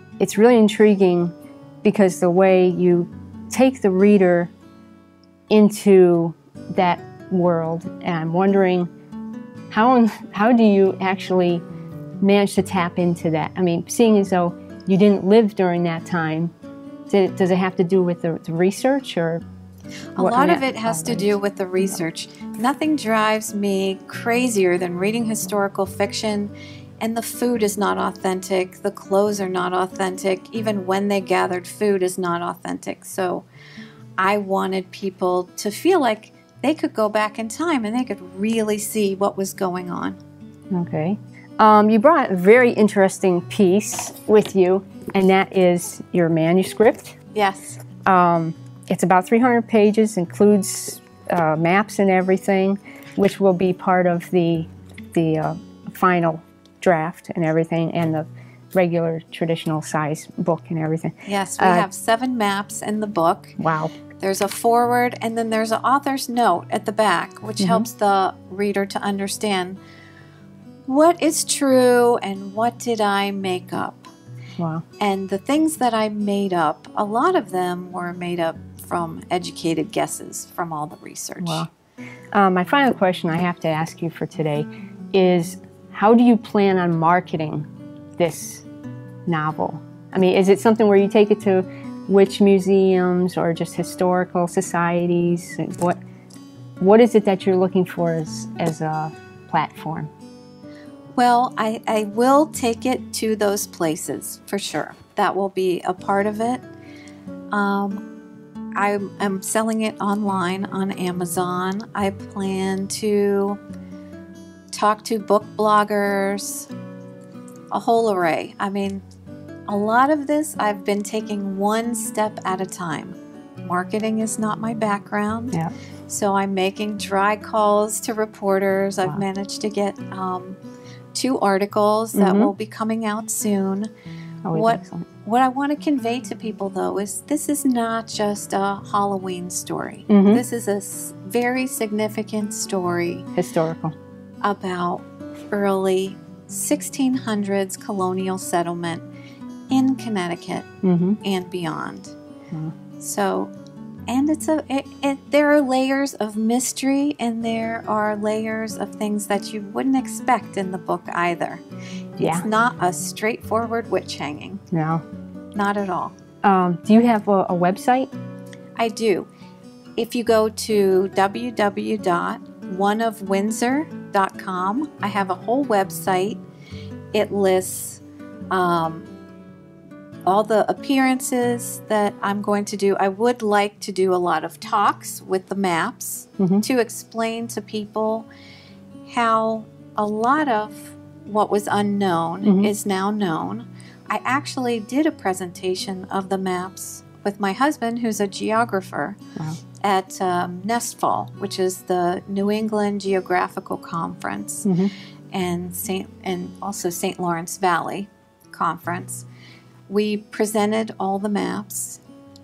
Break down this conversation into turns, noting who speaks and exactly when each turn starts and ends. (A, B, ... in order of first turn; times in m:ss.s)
0:00.2-0:04.5 A
0:05.5-0:08.9 A
0:09.7-0:11.6 A
0:12.2-0:16.5 A
0:17.1-0:19.4 A
0:20.1-0:33.4 B
0:20.2-0:21.3 A
0:34.2-0:40.2 B
0:40.7-0:47.2 A
0:47.3-0:47.8 B
0:48.0-1:01.8 A
1:01.2-1:03.6 B
1:03.6-1:03.9 A
1:04.2-1:09.8 B
1:07.6-1:07.9 A
1:10.9-1:14.1 B
1:14.6-1:14.8 A
1:15.0-1:21.6 B
1:21.4-1:21.7 A
1:22.3-1:27.6 A
1:28.2-1:28.6 A
1:29.2-1:36.0 A
1:36.8-1:40.1 A
1:41.2-1:46.6 B
1:47.5-1:48.0 B
1:48.8-1:53.6 B
1:54.7-1:56.7 B
1:57.7-1:59.0 B
1:59.7-2:05.6 B
2:06.1-2:10.6 B
2:11.1-2:13.9 B
2:12.1-2:12.5 A
2:14.4-2:15.1 A
2:14.5-2:23.3 B
2:20.1-2:20.4 A
2:23.3-2:23.9 A
2:24.4-2:29.0 B
2:29.7-2:30.7 B
2:30.8-2:31.2 A
2:31.2-2:32.1 B
2:33.0-2:33.5 B
2:34.1-2:41.6 B
2:42.2-2:44.6 B
2:42.2-2:42.4 A
2:44.7-2:45.0 A
2:45.5-2:46.1 B
2:46.4-2:48.1 A
2:48.8-2:49.3 B
2:50.0-2:56.4 B
2:57.1-2:59.1 B
3:00.2-3:08.3 B
3:06.4-3:06.6 A
3:09.0-3:19.2 B
3:12.4-3:12.7 A
3:19.8-3:24.7 B
3:24.6-3:24.9 A
3:25.3-3:29.2 B
3:29.9-3:32.0 B